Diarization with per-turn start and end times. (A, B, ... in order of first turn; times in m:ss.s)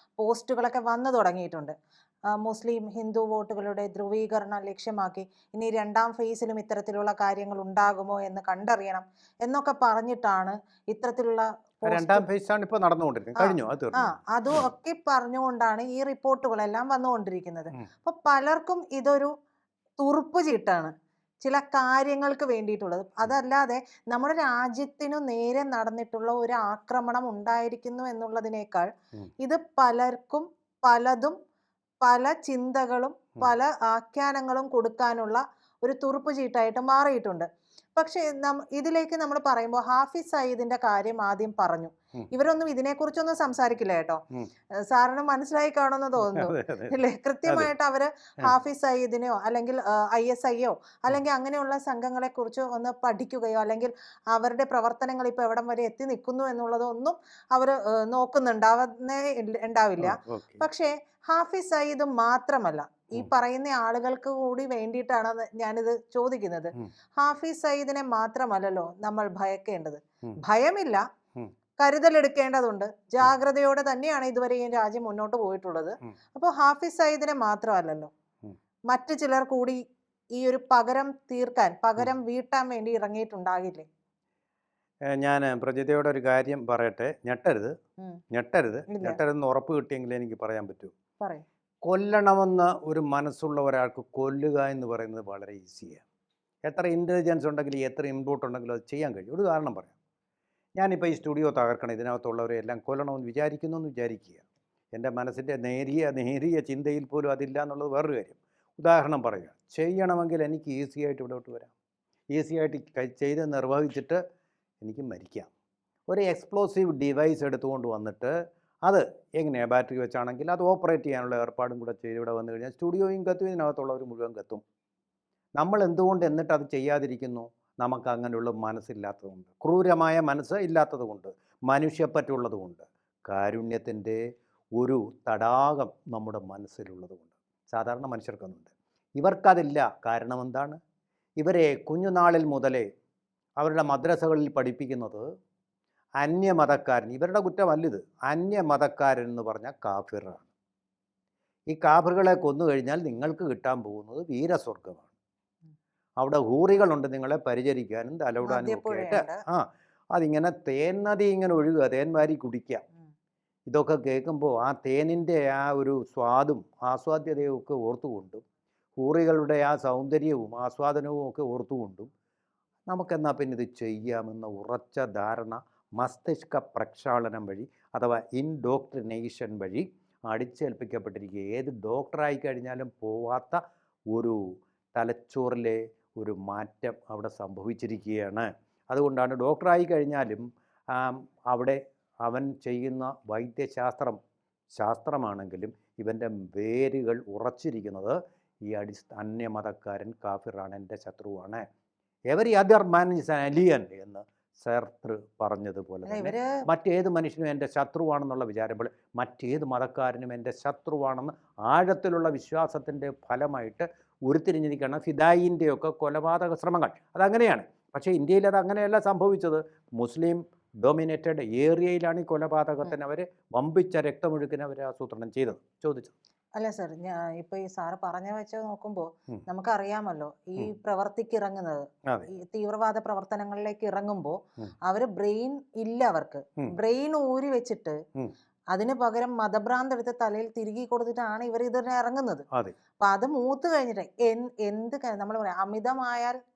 0:00.2-0:01.8 A
0:02.3-0:12.2 A
0:11.9-0:14.2 B
0:13.4-0:19.3 A
0:20.0-0:20.9 A
0:21.4-0:28.9 A
0:29.4-0:31.4 A
0:32.0-0:44.2 A
0:44.9-1:11.0 A
0:46.3-0:47.0 B
1:00.0-1:00.6 B
1:11.8-1:18.1 A
1:18.9-1:19.8 A
1:20.4-1:23.9 A
1:25.1-1:27.7 B
1:28.3-1:30.9 B
1:28.9-1:29.2 A
1:31.2-1:31.4 A
1:31.8-1:36.0 B
1:36.7-1:40.0 B
1:40.8-1:51.7 B
1:52.3-1:54.2 B
1:54.8-1:55.5 B
1:56.1-2:04.6 B
2:05.6-2:14.2 B
2:14.8-2:20.8 B
2:21.4-2:22.9 B
2:23.6-2:25.2 B
2:26.2-2:30.5 B
2:31.7-2:35.1 B
2:36.2-2:42.8 B
2:38.5-2:39.4 A
2:43.7-2:48.4 B
2:49.0-2:52.1 B
2:52.9-3:03.6 B
3:04.1-3:14.2 B
3:14.8-3:21.6 B
3:22.3-3:46.1 B
3:26.1-3:26.5 A
3:46.6-3:58.0 A
3:58.7-4:02.4 A
4:03.0-4:06.4 A